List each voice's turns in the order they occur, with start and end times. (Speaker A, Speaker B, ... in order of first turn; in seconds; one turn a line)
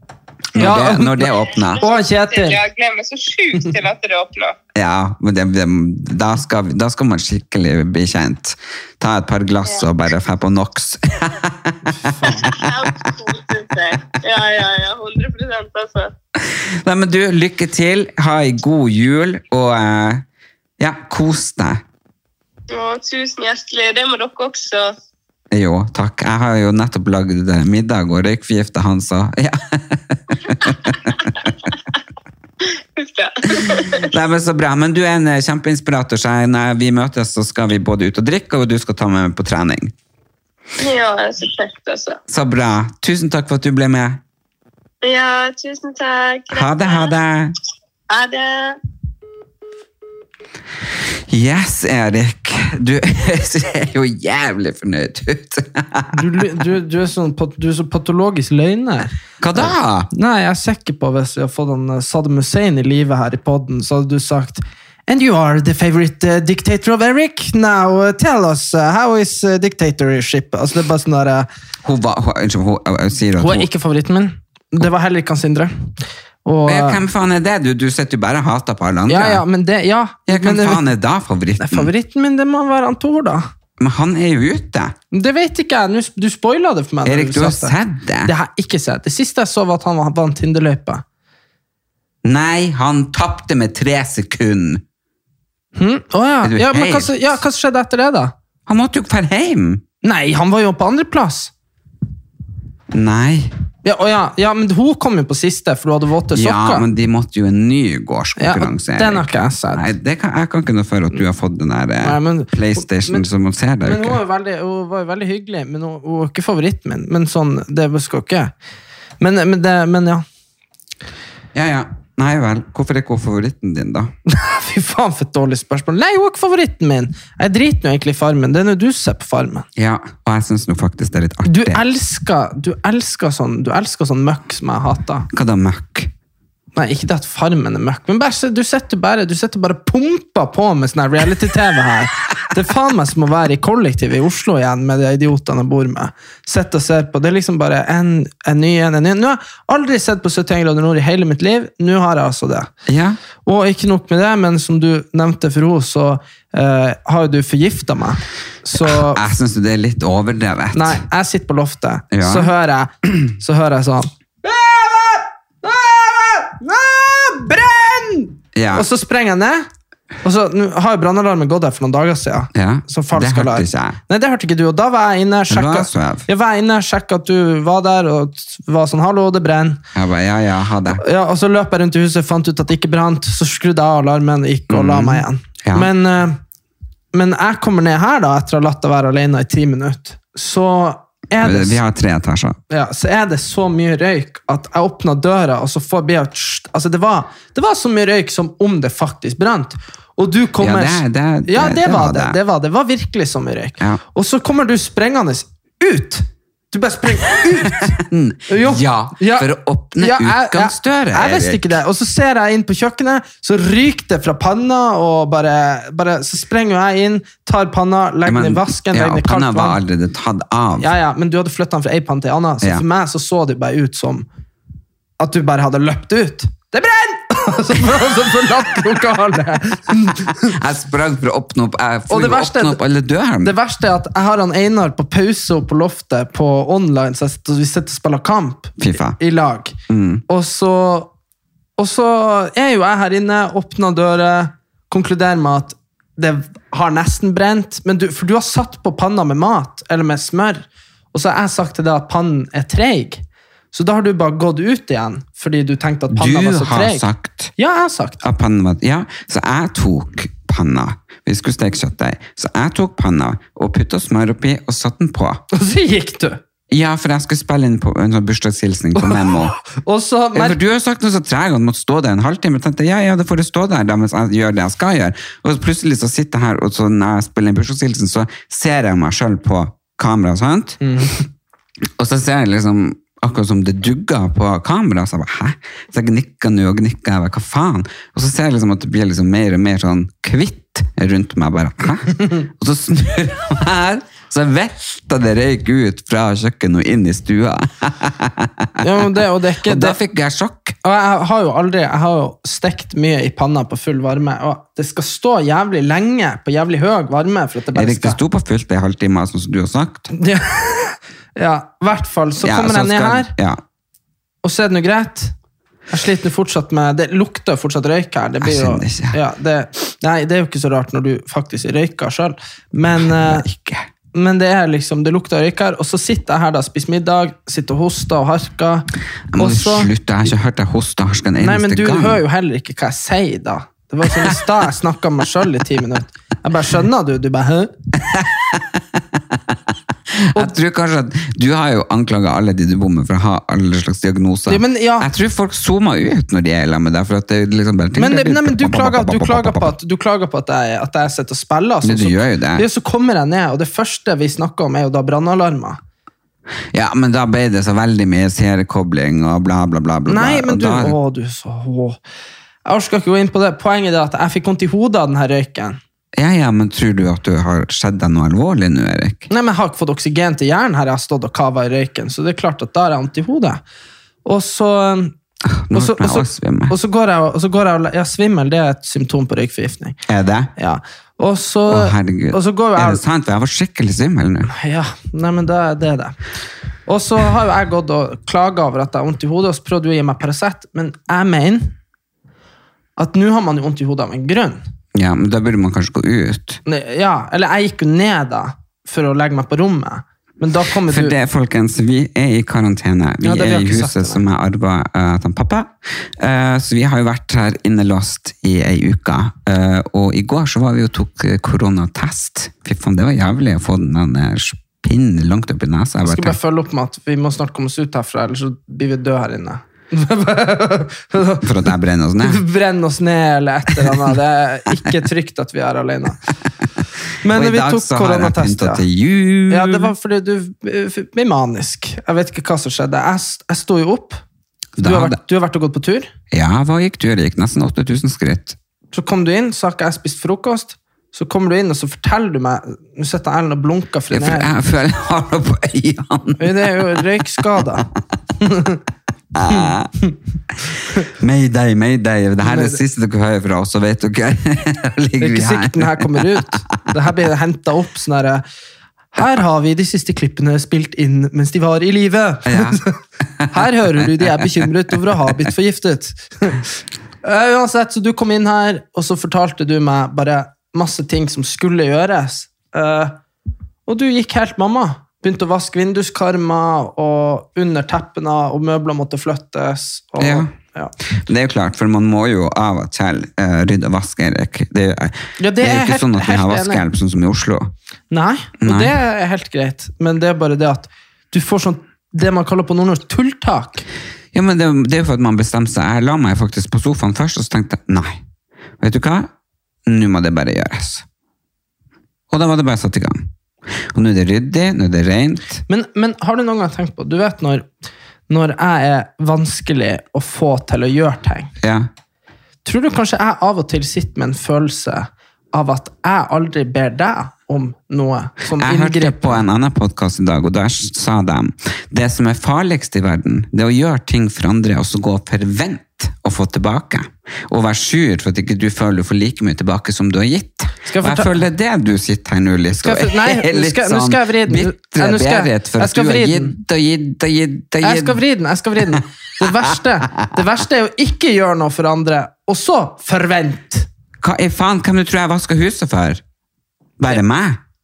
Speaker A: 0.5-1.8
Speaker B: 0.5-2.6
Speaker C: 1.8-4.6
Speaker A: 4.8-13.1
Speaker B: 12.0-12.5
Speaker C: 12.4-16.1
Speaker A: 16.4-20.2
Speaker A: 20.8-21.8
Speaker C: 22.7-24.9
Speaker A: 25.5-31.3
Speaker C: 32.6-34.1
Speaker A: 33.6-39.9
Speaker C: 40.8-42.2
Speaker A: 42.3-44.2
Speaker C: 45.0-47.1
Speaker A: 46.5-47.5
Speaker C: 48.1-48.8
Speaker A: 51.3-56.5
Speaker B: 56.1-71.5
Speaker A: 59.4-60.1
Speaker A: 71.8-73.7
Speaker B: 73.4-75.7
Speaker B: 76.5-77.0
Speaker A: 76.7-79.4
Speaker B: 79.1-80.8
Speaker A: 80.3-81.9
Speaker B: 81.6-83.4
Speaker A: 83.8-85.0
Speaker B: 85.1-91.0
Speaker A: 87.0-88.3
Speaker A: 92.2-94.8
Speaker B: 95.8-98.3
Speaker A: 96.4-97.1
Speaker A: 98.7-99.8
Speaker B: 100.0-101.5
Speaker A: 102.9-103.5
Speaker B: 103.8-106.8
Speaker A: 106.3-114.2
Speaker B: 108.4-109.9
Speaker B: 112.0-113.2
Speaker B: 113.8-118.5
Speaker B: 119.2-120.2
Speaker A: 121.5-124.1
Speaker B: 124.3-129.7
Speaker A: 129.8-131.8
Speaker B: 131.5-135.3
Speaker A: 135.3-136.1
Speaker B: 136.8-152.7
Speaker A: 152.9-153.2
Speaker B: 153.4-159.2
Speaker A: 158.8-161.0
Speaker B: 160.7-169.7
Speaker A: 162.1-162.5
Speaker A: 168.5-168.9
Speaker B: 170.2-179.8
Speaker A: 172.5-174.0
Speaker A: 175.5-176.2
Speaker A: 179.9-181.0
Speaker B: 180.9-186.4
Speaker A: 184.7-185.9
Speaker B: 187.1-191.8
Speaker A: 191.4-192.6
Speaker B: 192.7-219.8
Speaker A: 200.6-202.4
Speaker A: 207.7-211.8
Speaker A: 218.2-220.9
Speaker B: 220.8-224.3
Speaker B: 225.2-230.5
Speaker A: 230.5-233.5
Speaker B: 232.1-232.8
Speaker B: 233.4-239.8
Speaker A: 238.8-239.2
Speaker A: 239.9-240.2
Speaker B: 240.3-241.1
Speaker B: 241.8-257.0
Speaker A: 256.1-257.5
Speaker B: 257.6-258.2
Speaker A: 258.2-265.4
Speaker B: 265.5-266.4
Speaker A: 266.7-269.6
Speaker B: 269.0-270.6
Speaker A: 270.3-280.8
Speaker B: 280.8-281.2
Speaker A: 282.0-299.1
Speaker B: 298.8-300.0
Speaker A: 299.6-300.8
Speaker B: 300.8-308.2
Speaker A: 307.7-310.1
Speaker B: 310.1-313.3
Speaker A: 312.4-313.6
Speaker B: 314.4-315.3
Speaker B: 315.9-323.5
Speaker A: 318.4-319.2
Speaker A: 323.0-323.9
Speaker B: 324.1-328.9
Speaker A: 329.3-332.2
Speaker B: 329.4-329.9
Speaker B: 331.4-337.7
Speaker A: 338.1-339.6
Speaker A: 340.1-349.8
Speaker B: 344.5-345.1
Speaker B: 348.0-355.8
Speaker A: 351.8-352.6
Speaker A: 356.7-361.0
Speaker B: 360.1-362.0
Speaker B: 362.6-365.8
Speaker A: 366.2-369.3
Speaker B: 369.3-373.6
Speaker B: 374.2-375.1
Speaker A: 375.4-376.8
Speaker B: 375.7-380.0
Speaker A: 380.1-380.5
Speaker B: 380.6-383.0
Speaker A: 381.7-384.5
Speaker B: 384.5-386.2
Speaker B: 386.9-391.8
Speaker B: 393.0-394.6
Speaker A: 394.9-396.6
Speaker B: 396.7-401.2
Speaker A: 400.9-416.4
Speaker B: 403.2-404.2
Speaker B: 416.0-421.5
Speaker A: 421.4-422.4
Speaker B: 422.2-426.2
Speaker B: 427.2-428.8
Speaker A: 427.3-429.9
Speaker B: 429.5-434.2
Speaker A: 434.8-435.2
Speaker B: 434.8-436.1
Speaker A: 436.3-438.6
Speaker B: 438.9-444.5
Speaker A: 444.1-447.0
Speaker B: 446.4-447.9
Speaker B: 448.4-448.8
Speaker A: 449.3-449.9
Speaker B: 449.5-450.1
Speaker A: 451.1-456.5
Speaker B: 452.4-452.8
Speaker B: 455.2-458.4
Speaker B: 459.1-463.0
Speaker A: 462.5-462.8
Speaker B: 463.5-466.7
Speaker B: 467.2-473.2
Speaker B: 473.9-480.9
Speaker A: 480.2-480.5
Speaker A: 481.1-487.7
Speaker B: 485.4-486.8
Speaker B: 488.1-493.8
Speaker A: 488.6-488.9
Speaker A: 494.3-498.2
Speaker A: 498.8-499.3
Speaker A: 499.9-501.0
Speaker A: 502.3-505.6
Speaker B: 505.7-507.7
Speaker B: 508.3-511.5
Speaker A: 511.6-511.9
Speaker B: 512.6-519.4
Speaker A: 518.5-538.2
Speaker B: 530.8-531.4
Speaker B: 532.8-536.5
Speaker B: 537.8-543.9
Speaker A: 544.2-546.2
Speaker A: 547.0-547.6